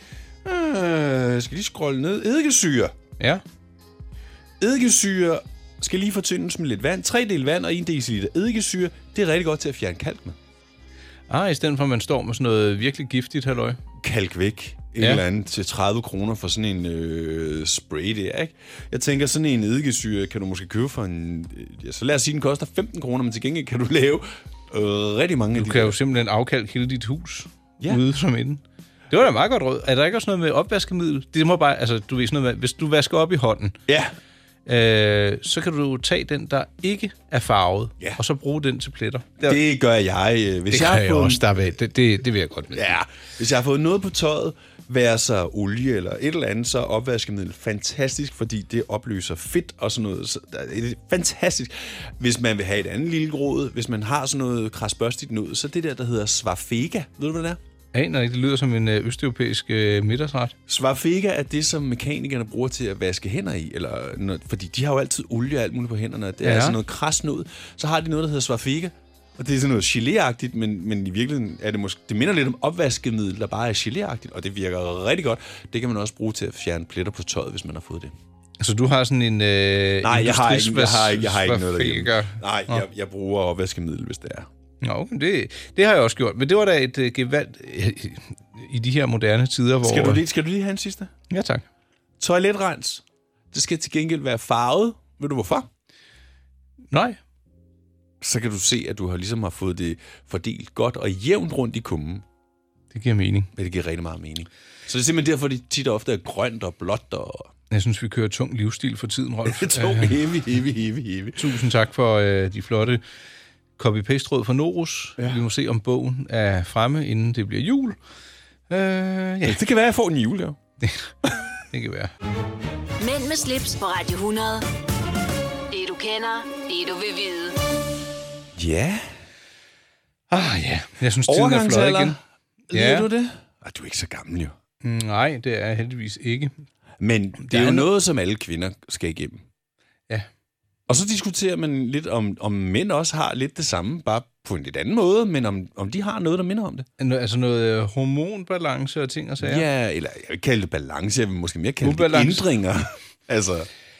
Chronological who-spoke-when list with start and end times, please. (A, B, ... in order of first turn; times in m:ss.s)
0:00.4-0:02.9 A
0:04.6-0:10.4 A
0:11.3-0:13.8 B
0:14.0-0:26.0 A
0:25.6-0:33.8 B
0:33.9-0:34.1 A
0:34.6-0:39.6 B
0:39.4-0:41.4 A
0:40.7-0:43.0 B
0:42.7-0:57.6 A
0:57.9-1:00.5 B
1:00.7-1:18.1 A
1:06.4-1:06.8 B
1:18.6-1:22.8 B
1:20.0-1:24.5 A
1:24.8-1:30.2 B
1:29.8-1:31.1 A
1:31.3-1:31.6 B
1:32.2-1:35.7 A
1:36.9-1:37.2 B
1:38.2-1:42.2 A
1:42.9-1:43.5 B
1:43.5-1:47.5 A
1:47.7-1:50.2 B
1:49.4-1:51.6 A
1:51.4-1:53.0 B
1:53.8-1:58.0 B
1:55.2-1:55.4 A
1:58.7-1:59.6 B
1:59.4-2:00.6 A
2:00.8-2:01.1 B
2:01.7-2:02.1 B
2:03.0-2:04.6 C
2:05.7-2:07.6 C
2:08.5-2:09.1 A
2:10.3-2:12.2 B
2:11.3-2:12.2 A
2:12.7-2:13.1 B
2:12.7-2:14.5 A
2:14.8-2:16.6 B
2:17.0-2:19.4 A
2:17.4-2:17.9 B
2:20.9-2:26.9 A
2:27.0-2:29.6 B
2:29.4-2:33.7 A
2:31.8-2:32.5 B